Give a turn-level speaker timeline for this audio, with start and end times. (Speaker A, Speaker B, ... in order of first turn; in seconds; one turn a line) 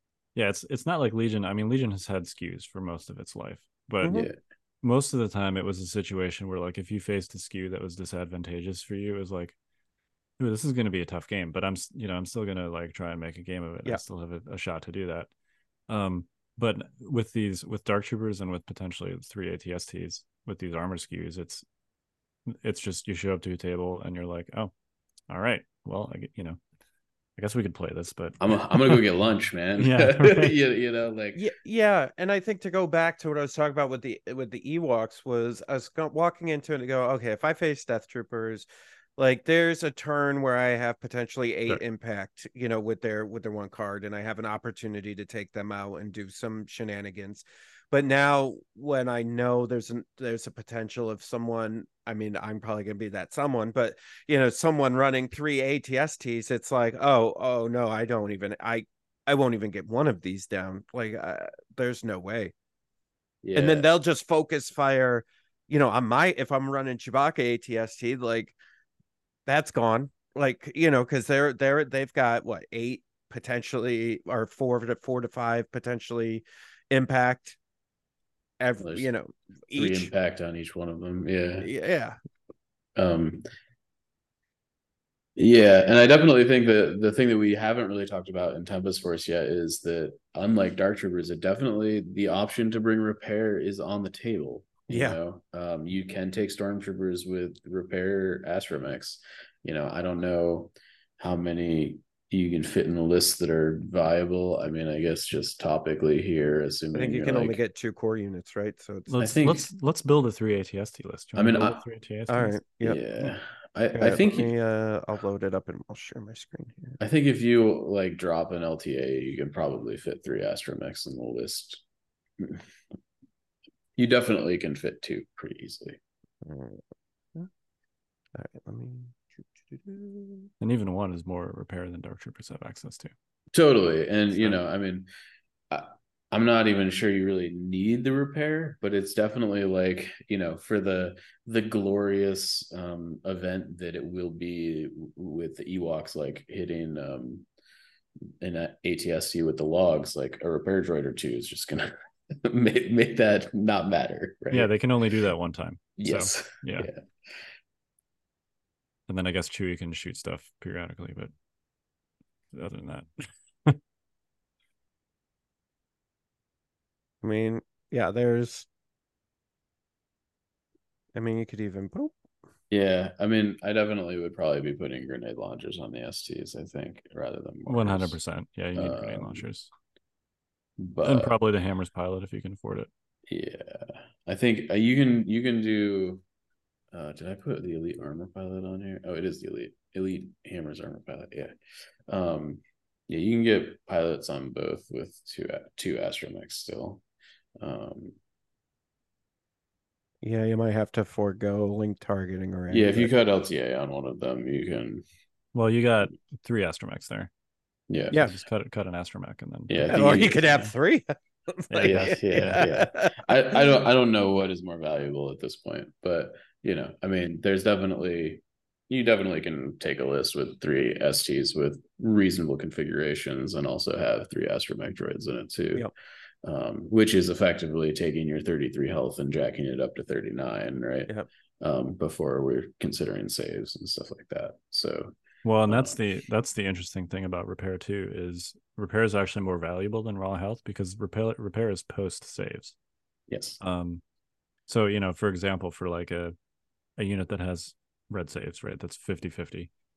Speaker A: 0.3-4.3
Speaker B: 4.0-4.3
Speaker C: 4.1-4.4
Speaker A: 4.8-9.5
Speaker A: 10.4-15.3
Speaker A: 15.9-21.6
Speaker A: 22.5-24.7
Speaker A: 25.3-26.6
Speaker A: 27.4-29.0
Speaker C: 28.4-31.4
Speaker A: 29.8-30.5
Speaker B: 31.3-38.6
Speaker B: 39.2-62.5
Speaker C: 63.4-63.9
Speaker B: 63.5-68.5
Speaker B: 69.5-77.6
Speaker B: 78.6-80.1
Speaker C: 78.8-79.1
Speaker C: 79.7-81.7
Speaker B: 81.6-82.2
Speaker C: 83.0-83.4
Speaker C: 85.3-107.6
Speaker B: 94.9-95.2
Speaker B: 106.9-109.1
Speaker A: 109.1-112.6
Speaker C: 109.2-109.7
Speaker C: 111.3-111.8
Speaker B: 112.3-113.0
Speaker C: 112.8-114.5
Speaker B: 113.9-117.0
Speaker C: 117.0-121.8
Speaker C: 122.4-122.7
Speaker C: 124.0-126.0
Speaker B: 126.4-126.8
Speaker B: 128.3-130.5
Speaker A: 130.6-133.1
Speaker C: 133.5-135.1
Speaker C: 135.7-147.5
Speaker C: 148.4-154.7
Speaker A: 154.5-156.9
Speaker C: 156.0-157.0
Speaker A: 159.1-161.3
Speaker A: 162.5-163.8
Speaker B: 167.2-168.7
Speaker B: 171.1-172.1
Speaker C: 172.7-178.2
Speaker A: 177.7-179.7
Speaker C: 178.7-179.4
Speaker C: 180.8-181.3
Speaker A: 181.0-182.9
Speaker C: 183.3-186.2
Speaker C: 186.9-191.5
Speaker C: 192.1-197.0
Speaker C: 197.6-198.2
Speaker B: 200.2-203.1
Speaker C: 202.7-205.0
Speaker A: 205.5-207.3
Speaker C: 207.9-208.2
Speaker A: 208.1-210.7
Speaker C: 209.7-210.4
Speaker B: 209.9-213.6
Speaker C: 211.8-225.9
Speaker C: 226.4-235.1
Speaker A: 235.4-242.7
Speaker C: 235.7-236.0
Speaker C: 243.3-243.6
Speaker A: 243.6-244.0
Speaker A: 244.7-246.3
Speaker A: 247.0-249.7